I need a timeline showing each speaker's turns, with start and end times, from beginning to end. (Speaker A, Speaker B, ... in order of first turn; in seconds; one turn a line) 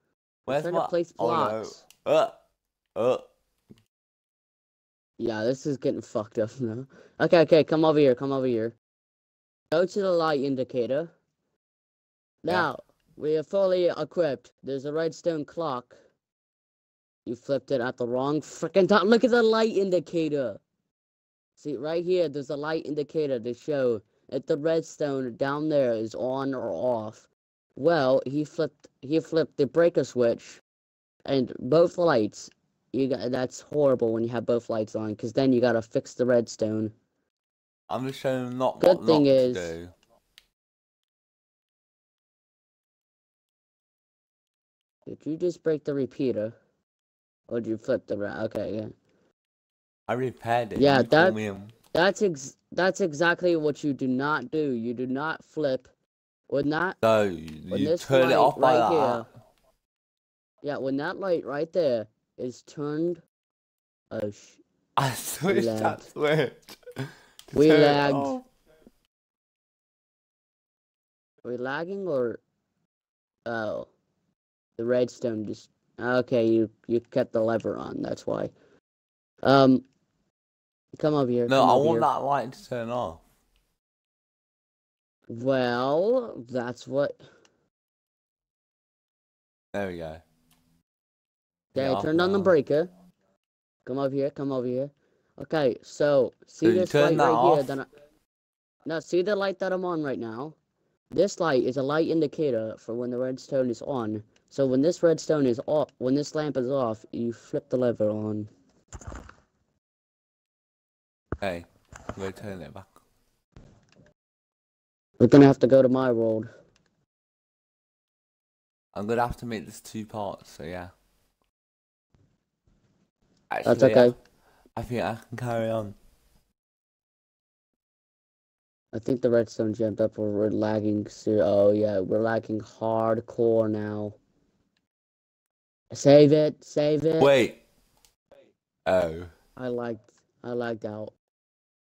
Speaker A: 0.5-2.4
Speaker B: 0.5-1.8
Speaker A: 3.0-3.3
Speaker B: 5.2-8.8
Speaker B: 9.7-11.1
Speaker B: 12.4-15.9
Speaker B: 17.3-20.6
Speaker B: 21.6-30.6
Speaker B: 31.3-36.9
Speaker A: 37.9-39.9
Speaker B: 38.8-39.7
Speaker B: 45.1-46.5
Speaker B: 47.5-48.9
Speaker A: 50.1-51.7
Speaker B: 50.8-51.4
Speaker B: 51.9-55.9
Speaker B: 56.5-57.0
Speaker A: 57.0-59.3
Speaker B: 57.7-59.3
Speaker B: 60.6-63.2
Speaker B: 64.1-64.6
Speaker A: 65.0-68.5
Speaker B: 65.5-66.1
Speaker B: 67.5-68.4
Speaker B: 71.4-72.4
Speaker B: 73.5-73.9
Speaker B: 74.8-78.5
Speaker B: 79.4-79.8
Speaker B: 81.0-82.1
Speaker A: 81.5-83.2
Speaker B: 85.3-87.2
Speaker A: 89.7-90.2
Speaker B: 91.8-92.9
Speaker A: 91.8-92.5
Speaker B: 93.8-97.9
Speaker A: 96.6-97.7
Speaker B: 98.9-100.6
Speaker B: 101.1-108.5
Speaker A: 111.4-113.0
Speaker B: 115.2-116.5
Speaker A: 118.9-120.9
Speaker A: 123.5-124.2
Speaker B: 123.7-124.2
Speaker A: 124.8-126.0
Speaker B: 128.9-134.2
Speaker B: 135.9-137.3
Speaker A: 137.2-137.6
Speaker A: 138.9-139.3
Speaker B: 139.6-141.1